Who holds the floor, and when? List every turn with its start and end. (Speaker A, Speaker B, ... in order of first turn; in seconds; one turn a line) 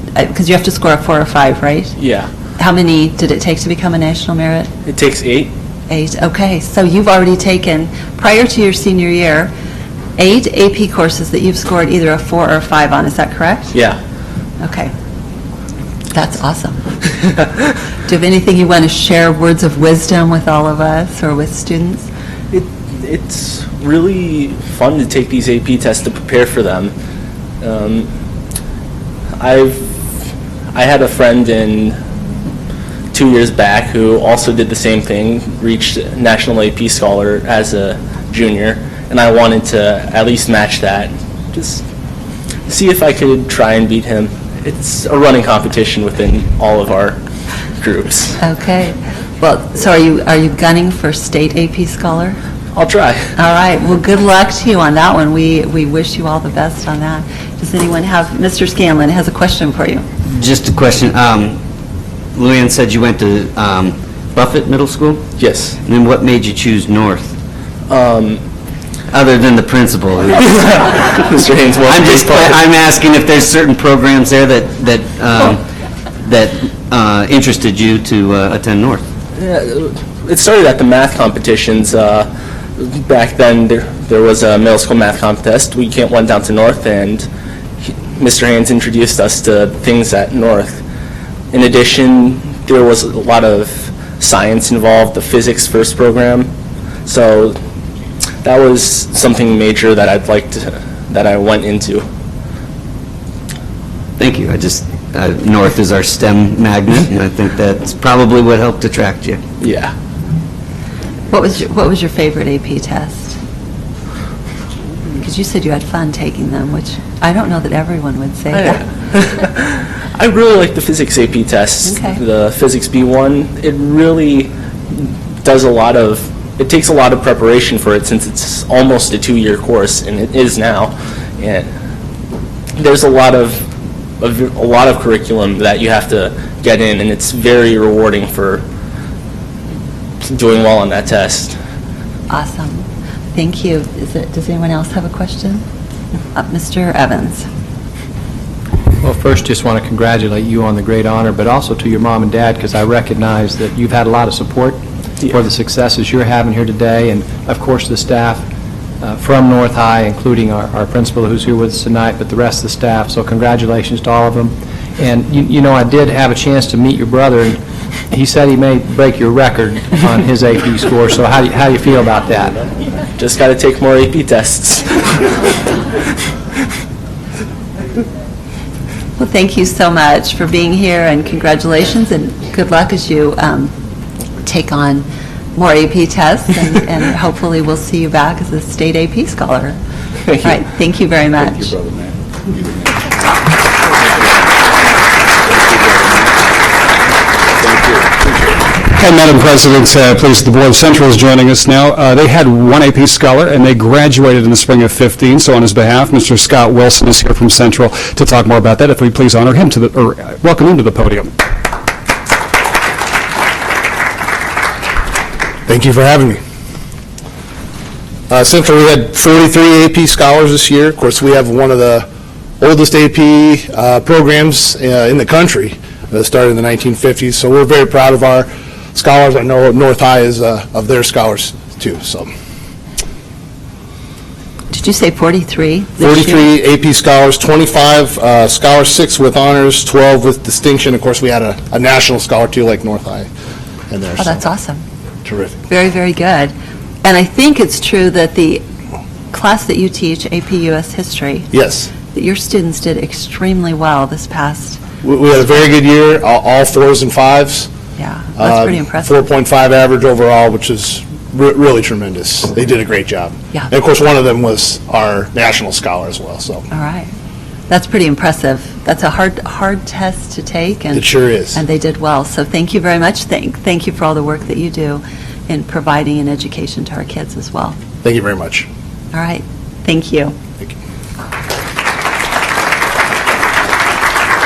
Speaker A: 0.1-1.9
Speaker B: 2.0-2.3
Speaker A: 2.6-4.7
Speaker B: 4.9-5.5
Speaker A: 5.9-9.5
Speaker A: 10.2-13.7
Speaker B: 13.7-14.0
Speaker A: 14.6-14.9
Speaker A: 16.1-16.9
Speaker A: 18.1-22.1
Speaker B: 22.5-26.9
Speaker B: 27.6-28.1
Speaker B: 29.4-29.8
Speaker B: 30.7-32.0
Speaker B: 33.1-41.8
Speaker B: 42.7-47.2
Speaker B: 47.8-48.4
Speaker A: 48.4-52.4
Speaker B: 52.7-53.3
Speaker A: 53.4-60.1
Speaker C: 60.3-61.6
Speaker C: 62.4-65.3
Speaker B: 65.4-65.8
Speaker C: 65.8-67.3
Speaker B: 67.9-68.4
Speaker C: 69.1-70.7
Speaker B: 70.8-72.6
Speaker C: 71.8-75.6
Speaker C: 76.2-79.0
Speaker B: 79.4-87.3
Speaker B: 88.1-90.8
Speaker B: 91.5-96.5
Speaker B: 97.1-97.6
Speaker B: 98.4-102.0
Speaker C: 104.2-109.4
Speaker B: 109.6-109.9
Speaker A: 111.3-113.4
Speaker A: 115.1-118.8
Speaker B: 118.5-131.7
Speaker A: 121.9-122.2
Speaker B: 132.8-133.7
Speaker B: 134.2-138.6
Speaker B: 140.2-141.6
Speaker A: 142.3-145.7
Speaker A: 146.3-147.5
Speaker D: 149.0-158.4
Speaker D: 159.0-167.6
Speaker D: 168.1-172.6
Speaker B: 173.2-175.3
Speaker A: 179.2-183.7
Speaker A: 184.4-189.8
Speaker B: 190.3-190.5
Speaker A: 190.4-191.7
Speaker E: 198.8-211.3
Speaker F: 215.7-216.4
Speaker F: 218.3-222.1
Speaker F: 222.6-232.3
Speaker A: 234.7-236.4
Speaker F: 236.0-243.3
Speaker F: 243.9-244.4
Speaker A: 244.2-244.8
Speaker F: 245.2-245.6
Speaker A: 245.7-246.5
Speaker A: 247.0-248.7
Speaker A: 249.3-251.5
Speaker F: 251.5-251.9
Speaker A: 252.1-254.8
Speaker F: 255.0-257.7
Speaker A: 258.0-259.1
Speaker F: 258.4-266.6
Speaker A: 266.7-267.1
Speaker A: 267.7-277.8
Speaker F: 270.9-271.6
Speaker F: 278.0-278.7
Speaker A: 279.1-280.4